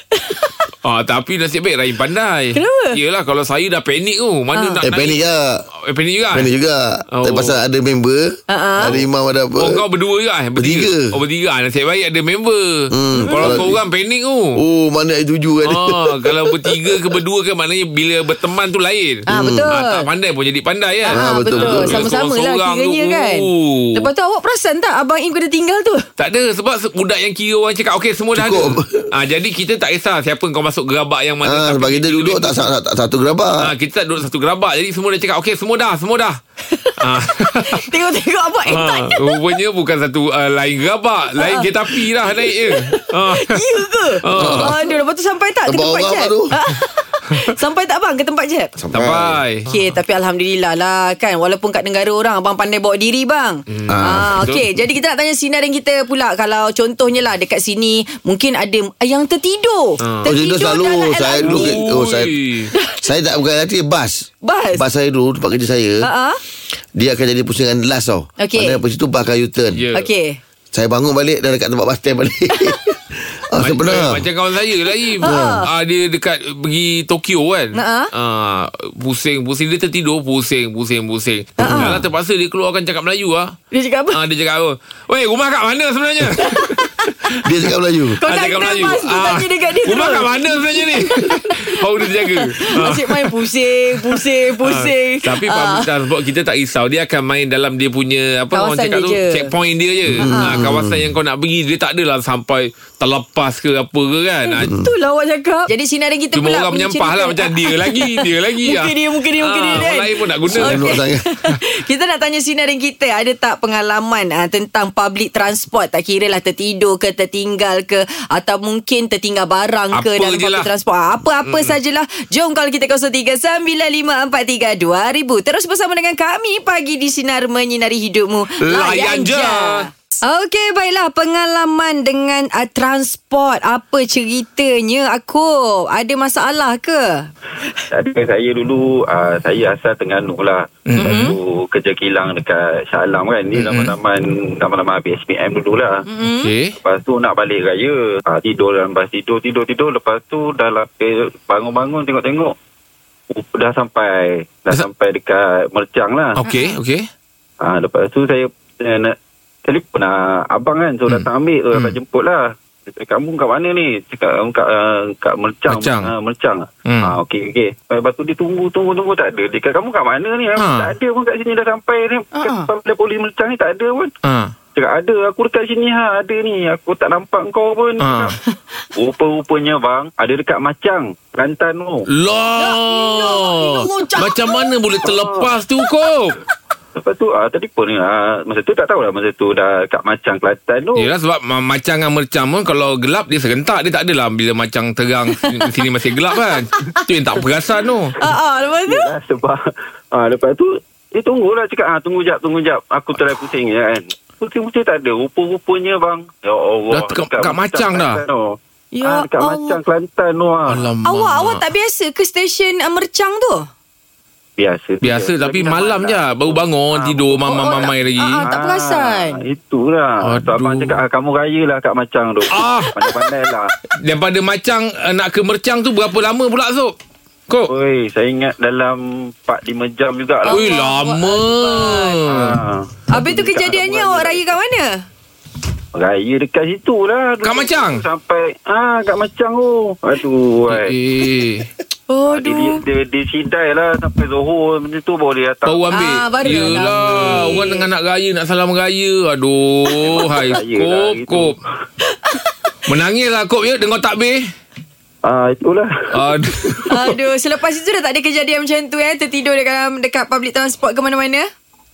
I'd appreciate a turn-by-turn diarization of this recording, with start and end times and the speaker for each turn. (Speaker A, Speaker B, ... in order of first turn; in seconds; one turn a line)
Speaker A: 0.1-0.6
Speaker B: 0.8-5.2
Speaker A: 2.5-3.0
Speaker A: 4.5-4.8
Speaker C: 4.8-5.7
Speaker B: 5.8-6.5
Speaker C: 6.3-9.8
Speaker B: 7.1-7.6
Speaker A: 8.5-9.0
Speaker B: 9.6-14.6
Speaker C: 10.6-11.1
Speaker C: 12.9-13.8
Speaker A: 13.2-13.6
Speaker C: 14.5-17.0
Speaker B: 15.7-24.1
Speaker A: 19.3-20.1
Speaker C: 19.3-19.7
Speaker A: 21.0-26.1
Speaker C: 21.1-22.0
Speaker B: 26.2-32.6
Speaker C: 28.3-29.1
Speaker C: 31.4-33.7
Speaker B: 33.6-36.4
Speaker B: 37.0-37.8
Speaker A: 37.4-39.4
Speaker B: 38.7-43.6
Speaker A: 41.4-48.7
Speaker B: 44.2-44.7
Speaker C: 44.4-44.8
Speaker C: 45.6-46.5
Speaker C: 48.8-49.4
Speaker B: 48.9-49.7
Speaker A: 49.7-61.8
Speaker B: 53.7-54.6
Speaker C: 53.9-54.4
Speaker B: 60.0-60.3
Speaker C: 60.2-62.3
Speaker B: 61.4-62.7
Speaker C: 63.0-66.1
Speaker A: 64.4-64.8
Speaker A: 66.0-66.4
Speaker C: 66.9-69.8
Speaker A: 68.4-68.8
Speaker B: 69.7-70.1
Speaker A: 69.9-70.4
Speaker C: 70.7-74.2
Speaker B: 73.6-83.5
Speaker A: 75.2-75.7
Speaker C: 75.2-75.6
Speaker A: 77.7-78.1
Speaker A: 81.6-82.0
Speaker C: 81.6-82.0
Speaker A: 83.7-84.2
Speaker B: 84.1-87.4
Speaker A: 86.4-87.1
Speaker C: 87.4-88.2
Speaker A: 88.2-95.9
Speaker B: 88.2-93.5
Speaker B: 94.0-104.7
Speaker A: 98.5-99.5
Speaker C: 100.1-101.2
Speaker A: 100.2-100.6
Speaker A: 104.4-137.3
Speaker B: 106.3-111.0
Speaker C: 110.5-111.2
Speaker B: 119.9-120.7
Speaker B: 121.4-121.8
Speaker B: 128.6-129.9
Speaker D: 137.9-146.0
Speaker B: 140.8-141.3
Speaker A: 140.9-141.3
Speaker B: 143.5-143.9
Speaker A: 146.1-146.5
Speaker B: 146.3-146.7
Speaker D: 146.8-152.5
Speaker D: 153.3-156.3
Speaker B: 156.3-157.1
Speaker A: 156.4-156.7
Speaker D: 157.6-159.1
Speaker D: 159.6-174.1
Speaker B: 161.1-162.0
Speaker B: 165.7-166.1
Speaker B: 166.8-167.2
Speaker B: 170.6-170.9
Speaker A: 172.3-172.7
Speaker B: 174.2-174.5
Speaker D: 174.7-178.3
Speaker B: 178.0-178.3
Speaker D: 178.9-182.0
Speaker B: 182.1-186.4
Speaker A: 182.6-184.7
Speaker D: 185.1-185.5
Speaker D: 186.9-191.1
Speaker B: 190.9-198.2
Speaker A: 195.4-195.7
Speaker A: 198.2-199.1
Speaker D: 198.9-199.6
Speaker D: 200.1-210.9
Speaker B: 206.9-208.2
Speaker A: 208.9-209.8
Speaker B: 210.7-211.6
Speaker A: 211.0-213.7
Speaker D: 214.6-217.9
Speaker B: 215.0-218.4
Speaker A: 217.5-219.4
Speaker D: 218.4-223.7
Speaker B: 220.2-221.0
Speaker B: 222.5-223.0
Speaker B: 224.0-226.9
Speaker D: 227.7-230.7
Speaker A: 230.4-232.3
Speaker B: 230.5-232.6
Speaker D: 232.2-234.4
Speaker A: 233.1-235.1
Speaker D: 235.9-240.9
Speaker B: 237.4-238.0
Speaker B: 240.7-241.7
Speaker A: 242.1-242.8
Speaker D: 242.3-245.9
Speaker B: 245.6-251.6
Speaker A: 245.9-247.8
Speaker D: 247.3-247.6
Speaker D: 249.9-251.6
Speaker B: 252.8-254.5
Speaker D: 255.2-255.9
Speaker B: 256.1-257.1
Speaker A: 256.9-261.5